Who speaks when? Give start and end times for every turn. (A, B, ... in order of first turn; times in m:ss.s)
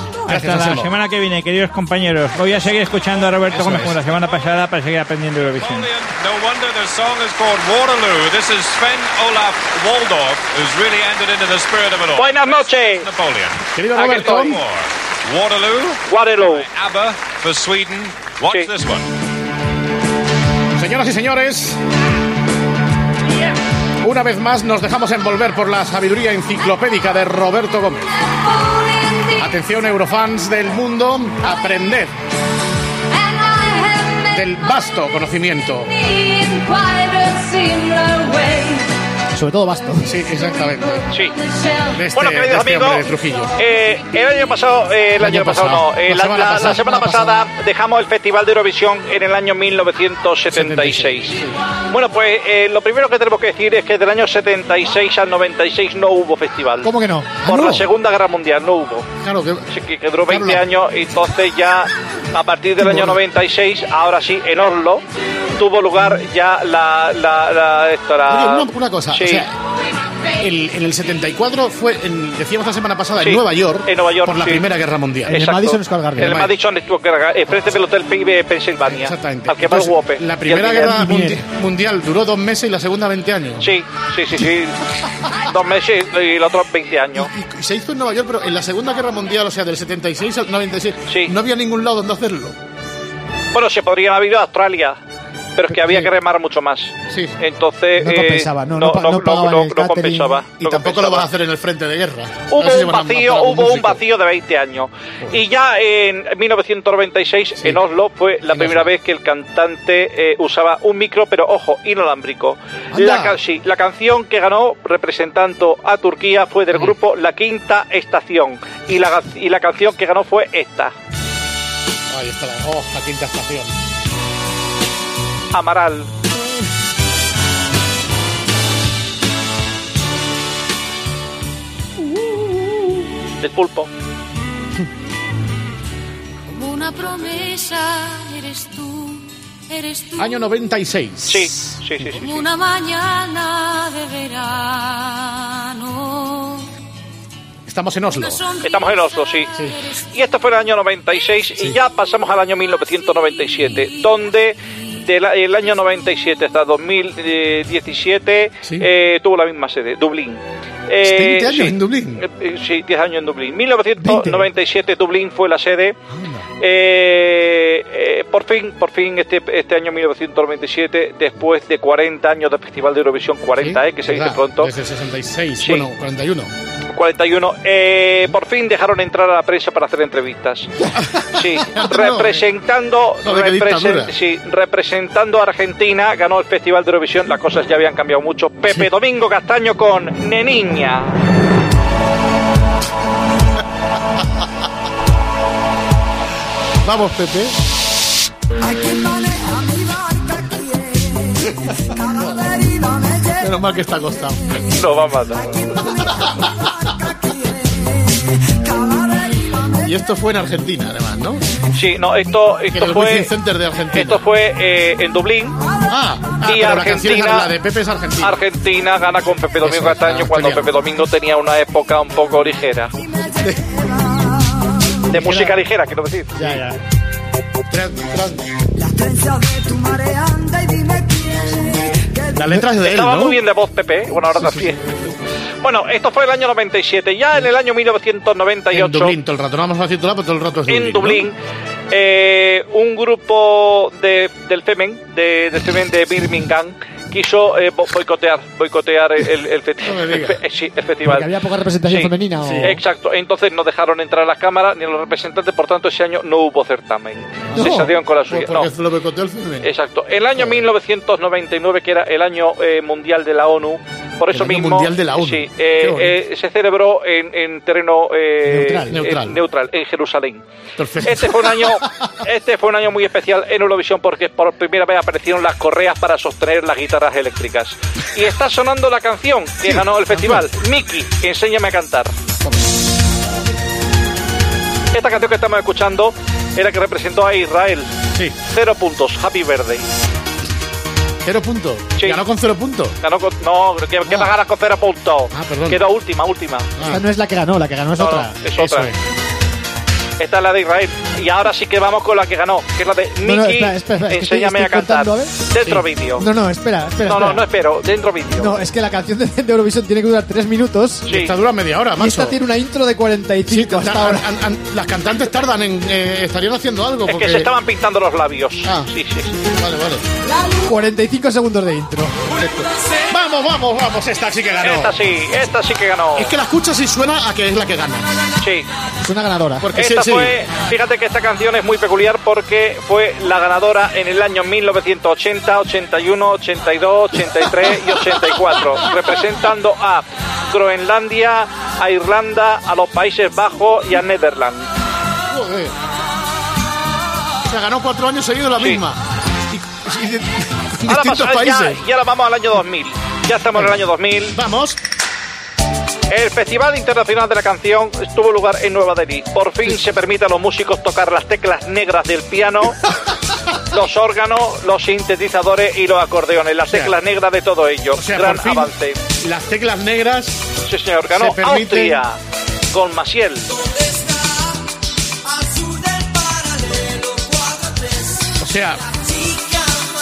0:00.3-0:00.9 A
0:00.3-0:05.9 B
0:03.6-0:03.9 A
0:03.7-0:04.4 C
0:05.6-0:13.6 C
0:12.2-0:13.1 D
0:13.7-0:14.6 A
0:14.0-0:14.6 D
0:14.5-0:19.1 C
0:16.1-0:16.7 D
0:20.8-0:21.8 A
0:24.0-0:28.1 A
0:28.6-0:29.3 E
0:29.3-0:32.2 A
0:33.2-0:34.3 E
0:34.3-0:36.0 A
0:36.0-0:38.8 E
0:39.4-0:40.2 F
0:40.0-0:41.1 A
0:41.1-0:41.4 D
0:41.9-0:43.5 A
0:42.1-0:43.0 D
0:43.6-0:51.4 D
0:45.2-0:47.0 A
0:46.8-0:47.3 F
0:50.5-0:51.5 A
0:51.9-0:56.9 D
0:56.8-0:57.5 F
0:57.4-0:59.1 D
0:57.5-0:57.9 A
0:59.2-0:59.7 A
0:59.7-1:05.0 D
1:00.3-1:00.6 A
1:02.8-1:03.2 A
1:05.6-1:09.5 D
1:08.3-1:09.5 A
1:10.4-1:15.4 A
1:13.2-1:14.6 D
1:15.3-1:16.4 F
1:15.3-1:21.0 D
1:16.2-1:16.5 A
1:18.9-1:23.7 A
1:20.8-1:21.4 F
1:23.6-1:24.8 D
1:25.4-1:27.3 D
1:27.2-1:32.6 A
1:31.1-1:31.3 D
1:33.5-1:35.0 D
1:35.6-1:41.3 D
1:37.1-1:37.4 A
1:38.0-1:40.4 F
1:40.6-1:44.0 A
1:42.5-2:00.9 D
1:48.5-1:48.9 A
1:53.0-1:53.3 F
2:02.1-2:03.7 A
2:05.5-2:06.1 D
2:13.4-2:13.9 D
2:16.5-2:20.2 E
2:20.2-2:21.5 A
2:21.2-2:22.3 D
2:22.2-2:26.7 E
2:27.7-2:28.5 A
2:28.4-2:28.8 E
2:28.6-2:29.5 D
2:30.1-2:46.0 D
2:38.6-2:38.9 A
2:41.0-2:42.2 A
2:44.0-2:44.4 F
2:46.1-2:46.4 A
2:46.6-2:54.7 D
2:53.6-2:56.5 A
2:55.6-2:55.9 D
2:56.9-3:00.7 D
3:01.0-3:02.5 A
3:01.3-3:11.1 D
3:03.2-3:04.1 A
3:16.8-3:17.6 A
3:23.4-3:24.5 A
3:24.7-3:25.6 D
3:29.8-3:31.4 A
3:31.7-3:33.3 D
3:32.7-3:34.2 A
3:33.9-3:35.6 D
3:35.9-3:38.4 A
3:36.4-3:37.5 D
3:38.2-3:42.9 D
3:39.6-3:40.7 A
3:43.4-3:43.7 A
3:45.1-3:46.5 D
3:45.1-3:45.5 A
3:46.4-3:46.8 F
3:47.7-3:48.4 A
3:52.3-3:53.4 A
3:52.8-3:54.8 D
3:54.4-3:54.8 A
3:55.6-3:59.2 D
3:58.7-4:01.3 A
4:00.7-4:01.4 D
4:01.9-4:11.3 D
4:09.8-4:10.4 A
4:11.0-4:12.8 F
4:11.8-4:18.7 D
4:12.4-4:12.8 A
4:17.5-4:19.7 A
4:17.6-4:17.8 F
4:19.6-4:30.4 D
4:20.4-4:20.6 A
4:24.3-4:26.2 A
4:28.4-4:29.0 F
4:28.9-4:29.4 A
4:30.8-4:31.8 A
4:31.0-4:42.1 D
4:39.6-4:40.5 A
4:44.9-4:49.9 D
4:51.2-4:53.0 A
4:52.0-4:52.2 D
4:53.0-4:56.9 D
4:55.3-4:55.8 A
4:56.9-4:58.4 F
4:58.0-4:58.9 D
4:58.6-4:59.0 A
5:00.2-5:06.3 D
5:03.2-5:05.4 F
5:06.2-5:07.4 F
5:07.0-5:08.6 D
5:08.4-5:11.1 F
5:11.1-5:11.3 D
5:11.1-5:12.4 A
5:12.0-5:14.2 F
5:13.5-5:17.5 A
5:17.1-5:19.3 D
5:18.6-5:18.9 A
5:19.4-5:20.0 A
5:20.6-5:22.3 F
5:22.4-5:25.0 A
5:24.6-5:26.3 D
5:26.2-5:28.1 A
5:28.4-5:28.7 D
5:29.0-5:29.7 F
5:29.6-5:30.4 A
5:29.7-5:44.7 D
5:45.3-5:45.7 A
5:47.4-5:51.8 A
5:50.9-5:54.4 D
5:53.6-5:54.8 A
5:56.1-6:02.8 D
6:03.7-6:09.0 D
6:06.7-6:07.0 A
6:08.0-6:10.4 A
6:10.6-6:12.2 D
6:11.1-6:12.0 A
6:12.7-6:13.5 D
6:18.4-6:18.8 A